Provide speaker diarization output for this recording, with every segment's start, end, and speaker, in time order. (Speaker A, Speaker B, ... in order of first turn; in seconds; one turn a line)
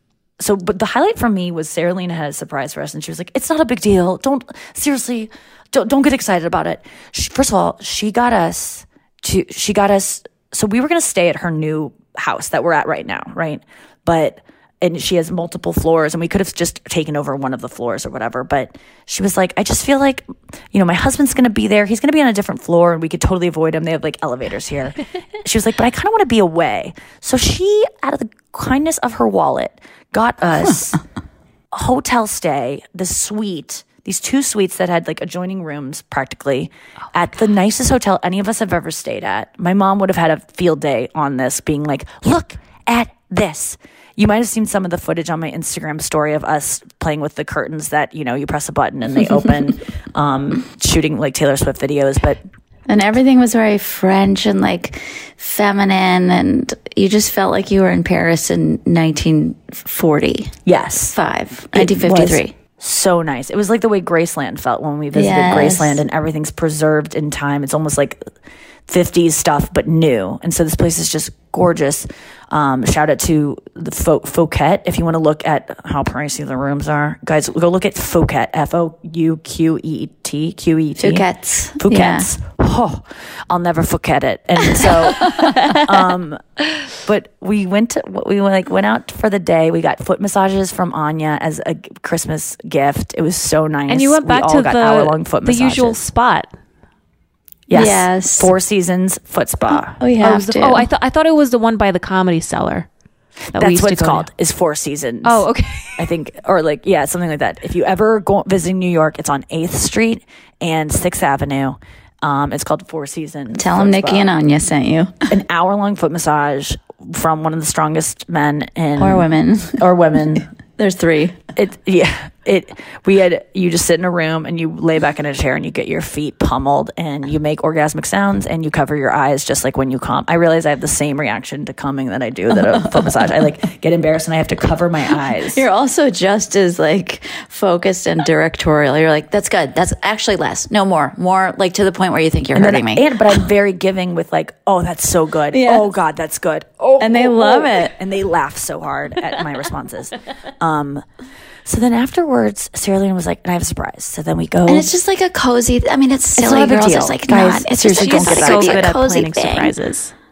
Speaker A: 0.4-31.0
Speaker A: 31.7-52.4
Speaker B: 52.9-60.5
Speaker A: 60.7-61.2
Speaker B: 61.1-62.5
Speaker A: 61.7-68.2
Speaker B: 65.1-66.0
Speaker A: 68.9-81.3
Speaker B: 81.0-82.3
Speaker A: 81.8-86.4
Speaker B: 84.8-85.5
Speaker A: 87.0-96.0
Speaker C: 93.9-96.5
Speaker A: 97.7-100.0
Speaker B: 97.7-98.5
Speaker B: 100.0-100.9
Speaker C: 100.2-102.9
Speaker C: 103.5-104.3
Speaker A: 103.5-114.3
Speaker C: 105.2-106.1
Speaker B: 113.5-115.3
Speaker A: 115.3-120.5
Speaker B: 119.0-119.9
Speaker B: 120.8-121.4
Speaker A: 121.6-135.6
Speaker B: 132.5-133.5
Speaker B: 135.5-143.1
Speaker A: 142.6-151.0
Speaker B: 145.5-145.9
Speaker B: 147.0-147.9
Speaker A: 151.7-154.9
Speaker B: 154.7-159.8
Speaker A: 156.4-159.7
Speaker C: 157.8-160.1